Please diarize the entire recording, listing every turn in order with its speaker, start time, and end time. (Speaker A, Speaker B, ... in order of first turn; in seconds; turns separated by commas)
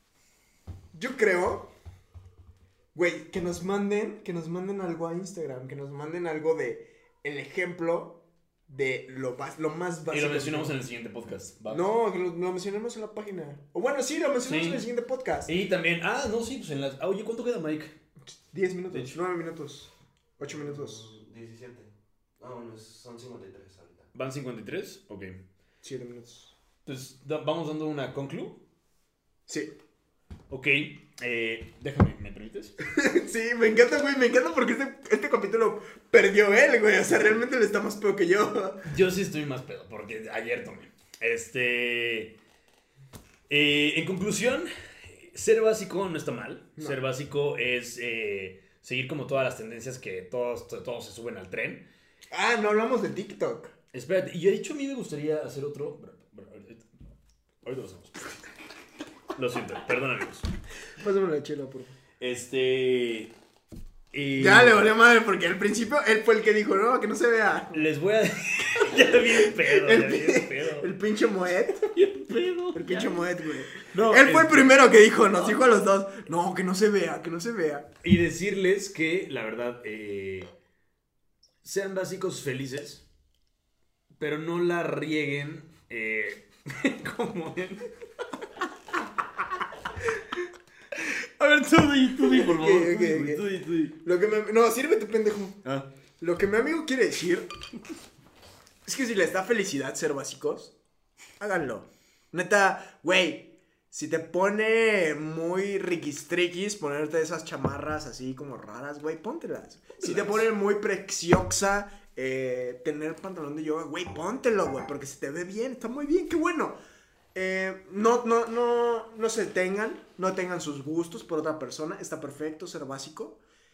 Speaker A: 0.9-1.7, Speaker A: 2.9-8.2, Speaker A: 8.7-10.7, Speaker B: 10.1-11.8, Speaker A: 11.7-15.5, Speaker B: 14.4-14.8, Speaker B: 15.5-17.9, Speaker A: 18.2-21.1, Speaker C: 20.4-24.1, Speaker B: 24.1-25.4, Speaker A: 25.8-26.5, Speaker B: 26.8-28.6, Speaker A: 29.5-29.7, Speaker B: 30.5-32.7, Speaker A: 32.8-38.8, Speaker B: 38.8-42.3, Speaker B: 43.5-51.8, Speaker A: 52.3-53.7, Speaker B: 53.9-56.8, Speaker B: 57.6-58.4, Speaker B: 59.3-60.5, Speaker A: 61.0-61.9, Speaker B: 62.2-63.3, Speaker B: 64.1-64.9, Speaker A: 64.4-67.9, Speaker B: 67.7-70.9, Speaker A: 68.8-71.9, Speaker B: 71.9-73.2, Speaker A: 72.7-77.9, Speaker B: 73.8-74.9, Speaker B: 78.0-80.5, Speaker B: 81.6-83.0, Speaker B: 84.2-87.9, Speaker B: 91.0-93.9, Speaker A: 92.2-95.6, Speaker A: 96.2-97.5, Speaker A: 98.8-100.7, Speaker A: 101.4-116.8, Speaker B: 110.0-110.5, Speaker A: 117.3-123.4